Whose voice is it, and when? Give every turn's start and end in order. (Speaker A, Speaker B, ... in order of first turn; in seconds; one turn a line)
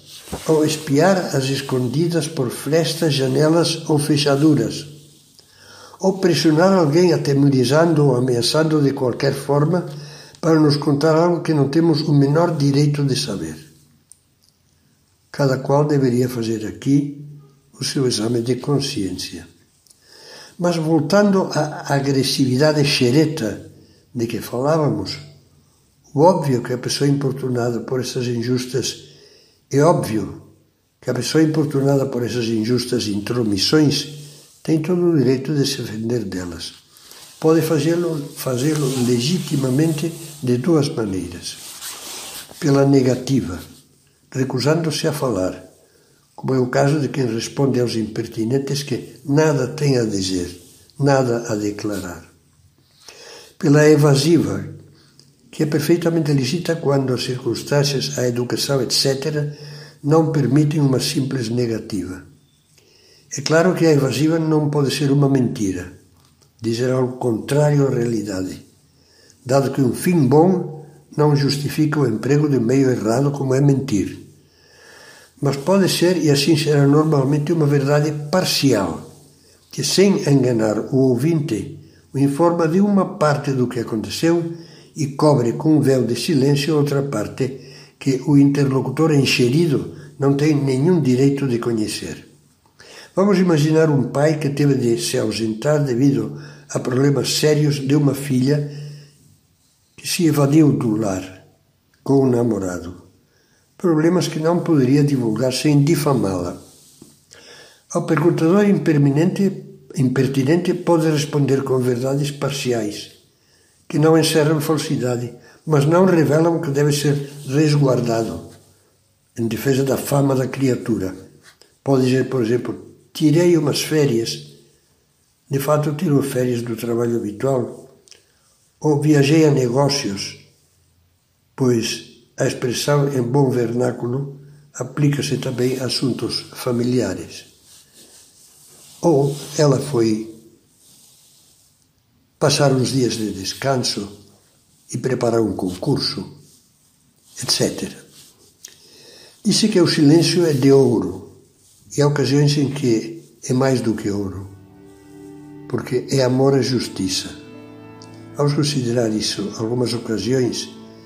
Speaker A: 0.4-4.9
Speaker A: 6.0-9.9
Speaker A: 10.4-13.7
Speaker A: 15.3-19.5
Speaker A: 20.6-25.2
Speaker A: 26.1-29.1
Speaker A: 29.7-30.4
Speaker A: 31.0-36.8
Speaker A: 37.4-41.6
Speaker A: 42.6-43.6
Speaker A: 44.3-45.7
Speaker A: 46.4-52.3
Speaker A: 53.6-54.7
Speaker A: 55.5-62.2
Speaker A: 63.3-65.9
Speaker A: 66.6-68.6
Speaker A: 69.4-74.2
Speaker A: 75.4-79.1
Speaker A: 79.7-92.3
Speaker A: 93.1-98.8
Speaker A: 100.0-101.4
Speaker A: 102.0-103.0
Speaker A: 103.8-106.6
Speaker A: 107.9-113.1
Speaker A: 113.9-118.5
Speaker A: 119.3-121.1
Speaker A: 121.8-124.5
Speaker A: 125.5-127.9
Speaker A: 128.8-130.4
Speaker A: 131.6-137.5
Speaker A: 139.0-140.4
Speaker A: 142.4-144.2
Speaker A: 144.9-146.3
Speaker A: 147.4-148.0
Speaker A: 149.4-151.3
Speaker A: 151.9-154.5
Speaker A: 155.7-157.3
Speaker A: 158.3-160.8